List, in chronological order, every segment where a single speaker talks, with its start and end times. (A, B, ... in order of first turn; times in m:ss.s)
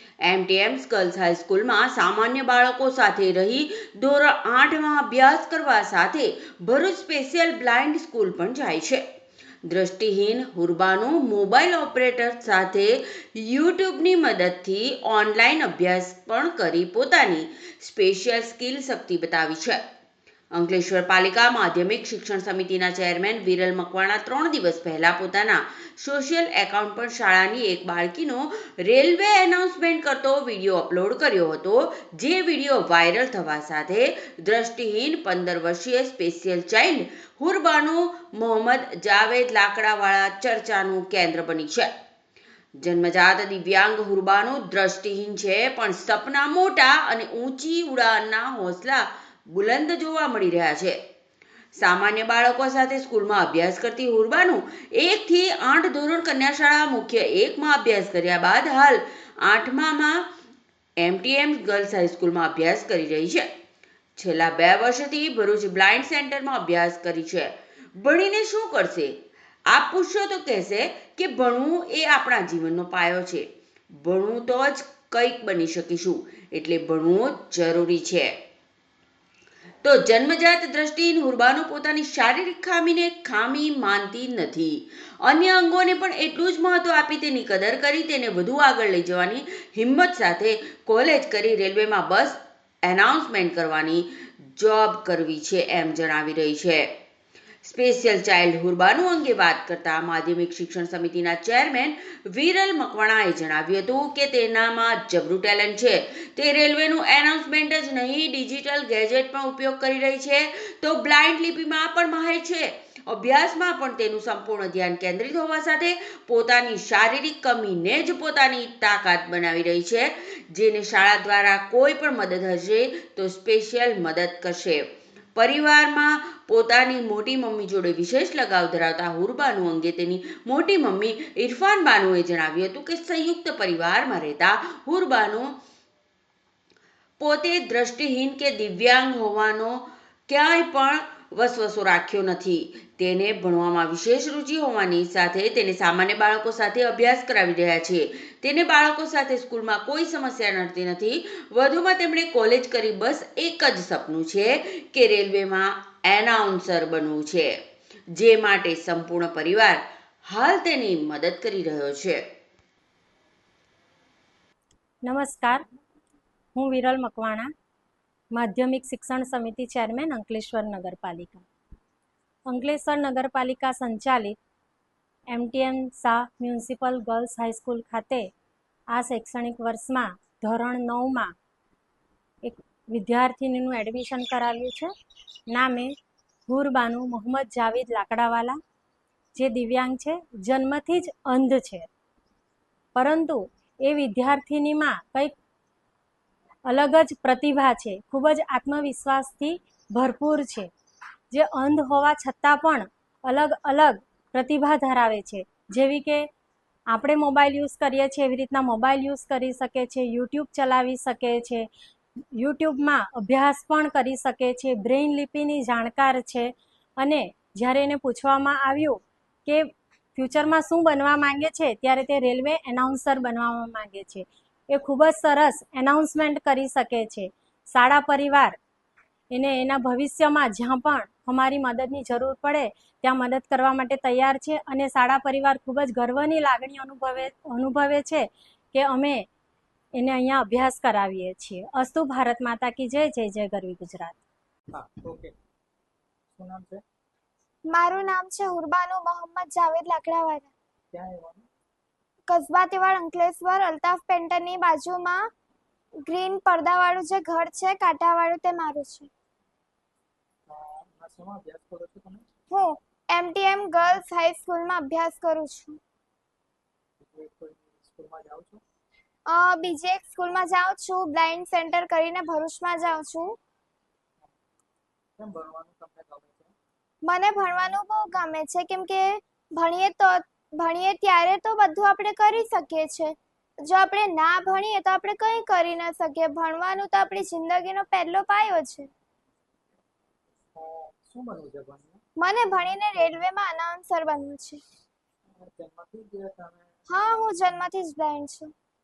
0:00.2-0:09.0 A
0:09.7-0:19.8 A
0:20.5-0:41.9 A
0:42.8-0:51.0 A
0:51.8-1:00.2 A
1:01.0-1:03.5 A
1:04.2-1:09.2 A
1:09.7-1:13.5 A
1:14.0-1:18.3 A
1:19.8-1:36.9 A
1:37.6-2:15.6 A
2:17.2-2:37.5 A
2:38.2-2:42.2 A
2:45.0-2:45.6 B
2:46.6-2:47.5 B
2:48.4-2:51.5 B
2:52.5-2:54.4 B
2:55.3-2:58.3 B
2:58.9-3:01.4 B
3:02.4-3:04.9 B
3:05.5-3:06.0 B
3:06.5-3:08.6 B
3:09.4-3:11.9 B
3:13.0-3:15.3 B
3:16.7-3:20.7 B
3:21.3-3:26.3 B
3:26.9-3:31.7 B
3:32.4-3:48.6 B
3:49.3-3:59.3 B
4:00.0-4:04.2 B
4:04.7-4:05.3 C
4:06.4-4:06.8 C
4:07.7-4:10.5 D
4:10.9-4:11.5 C
4:12.3-4:15.3 D
4:16.0-4:19.1 D
4:20.5-4:22.2 C
4:22.5-4:25.8 D
4:27.0-4:28.6 C
4:29.3-4:33.4 D
4:35.2-4:36.5 C
4:37.0-4:48.9 D
4:50.6-4:52.0 C
4:52.2-4:54.6 D
4:52.8-4:53.2 C
4:55.4-4:56.9 C
4:56.9-4:58.5 D